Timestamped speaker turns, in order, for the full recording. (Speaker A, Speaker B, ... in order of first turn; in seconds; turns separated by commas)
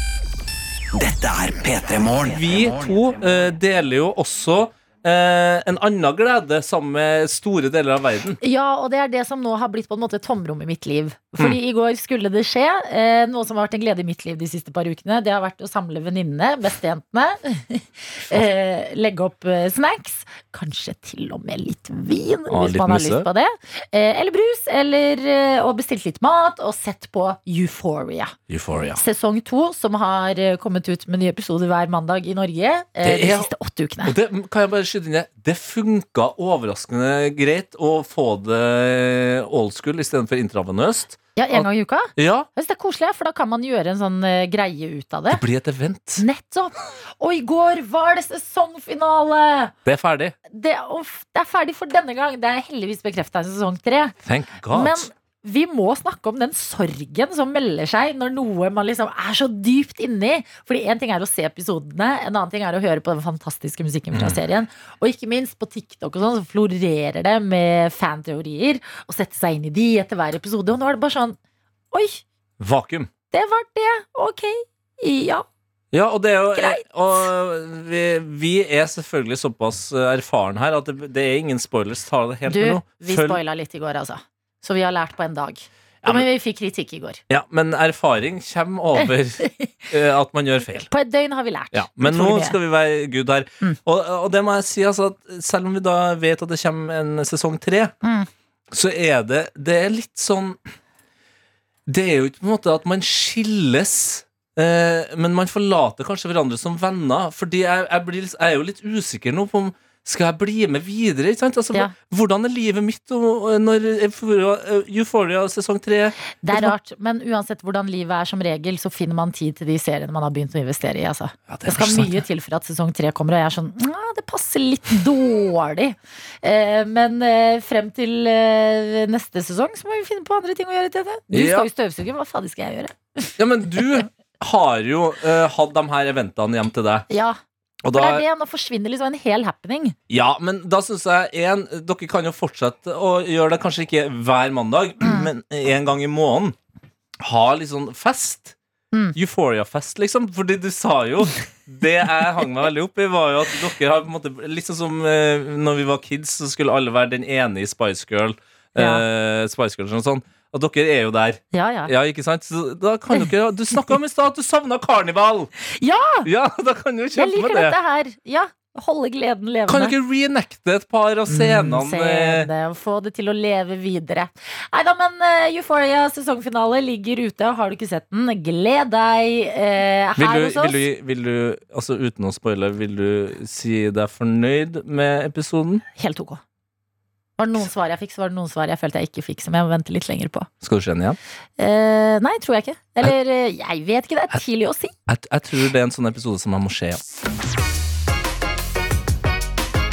Speaker A: 0.9-3.1, Speaker B: 2.2-8.4, Speaker C: 8.4-28.4, Speaker B: 22.5-23.3, Speaker B: 28.5-29.0, Speaker C: 29.0-34.1, Speaker B: 33.0-33.5, Speaker B: 34.0-42.5, Speaker C: 41.4-45.4, Speaker B: 45.3-46.2, Speaker C: 46.2-49.7, Speaker B: 49.9-50.3, Speaker C: 50.5-54.2, Speaker B: 54.2-55.1, Speaker C: 54.7-71.4, Speaker B: 64.1-64.4, Speaker C: 71.9-72.2, Speaker B: 72.6-73.1, Speaker C: 73.3-75.5, Speaker B: 75.9-83.4, Speaker C: 76.5-77.2, Speaker C: 82.5-87.2, Speaker B: 86.0-86.3, Speaker B: 87.3-90.9, Speaker C: 89.0-89.7, Speaker C: 90.9-92.6, Speaker B: 91.7-97.9, Speaker C: 98.0-98.3, Speaker B: 98.7-100.6, Speaker B: 101.9-116.8, Speaker C: 116.4-133.3, Speaker B: 121.5-122.2, Speaker B: 131.3-131.7, Speaker B: 133.4-137.1, Speaker C: 137.1-137.4, Speaker B: 137.8-138.2, Speaker C: 137.9-140.0, Speaker B: 140.1-146.6, Speaker C: 145.0-145.3, Speaker B: 147.2-148.6, Speaker B: 149.2-165.5, Speaker C: 158.8-159.0, Speaker C: 161.5-161.9, Speaker C: 163.2-164.0, Speaker C: 165.7-166.3, Speaker B: 166.2-167.8, Speaker C: 167.2-169.9, Speaker B: 169.7-172.5, Speaker C: 171.3-180.8, Speaker B: 180.2-185.8, Speaker C: 186.0-186.4, Speaker C: 187.4-190.5, Speaker B: 190.6-191.2, Speaker C: 191.6-194.9, Speaker B: 195.1-197.0